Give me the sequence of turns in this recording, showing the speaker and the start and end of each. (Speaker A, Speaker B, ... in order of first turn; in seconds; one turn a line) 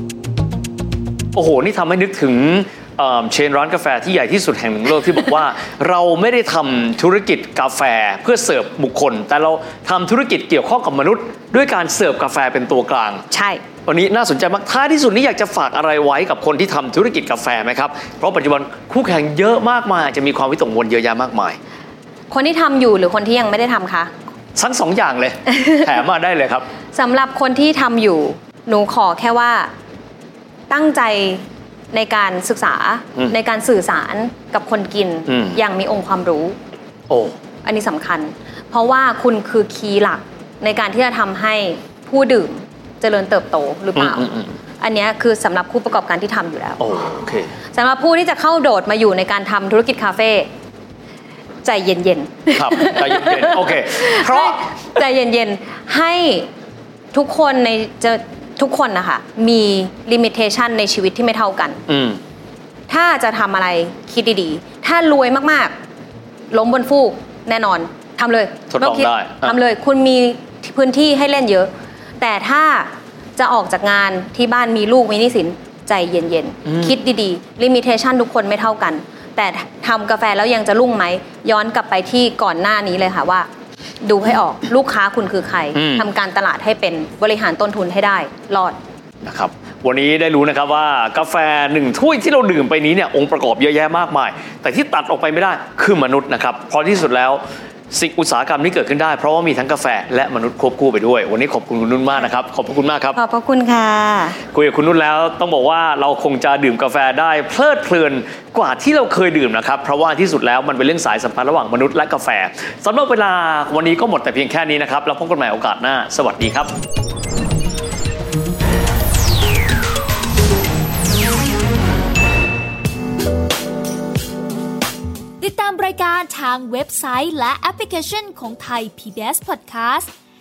Speaker A: 1.3-13.2
Speaker B: 13.3-13.6
Speaker A: 13.8-21.6
Speaker B: 22.3-24.1
Speaker A: 24.6-26.6
Speaker B: 26.9-29.7
Speaker B: 30.7-36.5
Speaker A: 35.3-35.6
Speaker A: 37.1-37.4
Speaker B: 37.6-44.3
Speaker A: 44.0-44.5
Speaker B: 44.8-46.8
Speaker A: 46.8-47.5
Speaker B: 47.7-50.5
Speaker B: 51.6-56.5
Speaker A: 52.5-54.6
Speaker B: 57.1-61.8
Speaker A: 61.9-62.2
Speaker B: 62.9-65.7
Speaker B: 66.5-83.5
Speaker A: 68.7-69.6
Speaker A: 76.7-77.0
Speaker B: 84.0-88.8
Speaker A: 85.7-86.1
Speaker A: 89.2-103.2
Speaker B: 103.1-104.4
Speaker A: 104.5-116.7
Speaker C: 125.4-130.1